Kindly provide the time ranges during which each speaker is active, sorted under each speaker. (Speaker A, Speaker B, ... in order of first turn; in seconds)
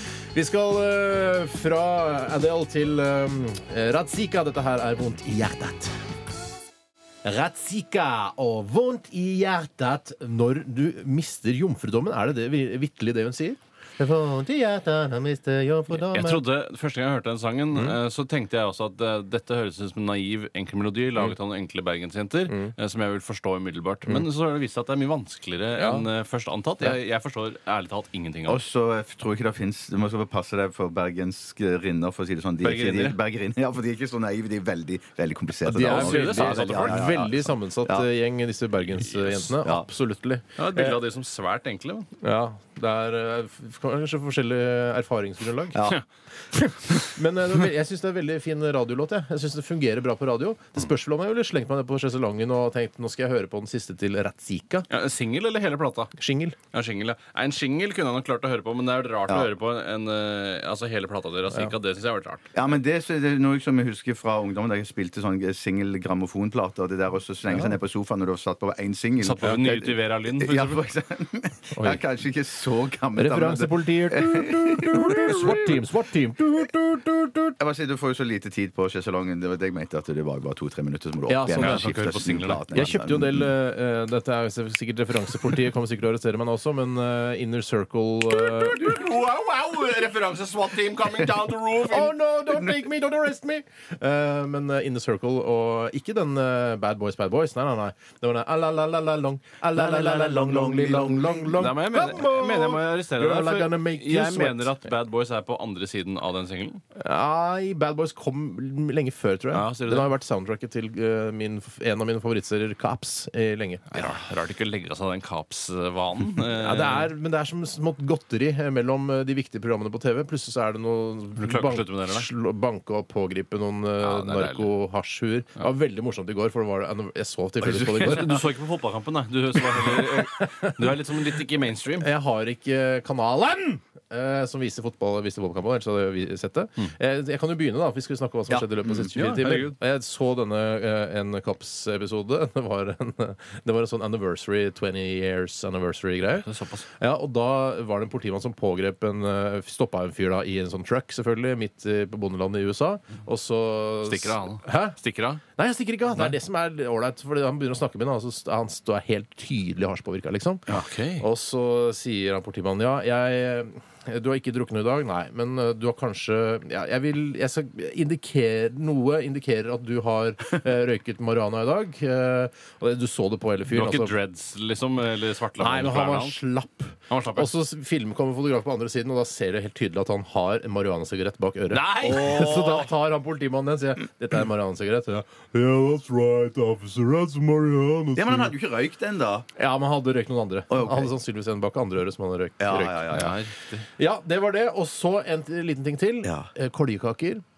Speaker A: 0.3-6.0, 7.2-16.4, 17.7-18.0, 25.8-26.1, 35.6-41.0, 42.2-45.9, 46.5-54.9, 56.1-56.5, 71.7-72.0, 73.2-77.6, 81.3-81.9, 82.7-88.9, 91.8-104.8, 106.9-114.1, 116.5-128.4, 129.6-130.8, 132.0-146.5, 147.0-154.9, 155.6-174.1, 175.6-188.5, 189.6-193.3, 194.0-197.4
Speaker B: 16.0-28.6, 32.6-33.2, 35.8-37.1, 39.0-39.5, 40.5-42.1, 54.9-56.1, 56.7-62.4, 69.2-70.8, 81.5-82.7, 88.3-92.2, 101.5-106.8, 109.5-110.1, 113.9-117.1, 121.4-122.3, 124.0-124.7, 127.6-132.1, 139.1-139.7, 146.3-146.8, 154.0-155.4, 156.1-156.3, 160.7-161.2, 173.7-176.4, 177.1-177.5, 181.7-182.6, 193.1-193.8
Speaker C: 28.5-38.0, 62.5-75.5, 77.6-83.5, 99.8-101.6, 182.0-182.8, 188.2-189.4, 190.7-191.1, 192.6-193.3, 196.2-196.5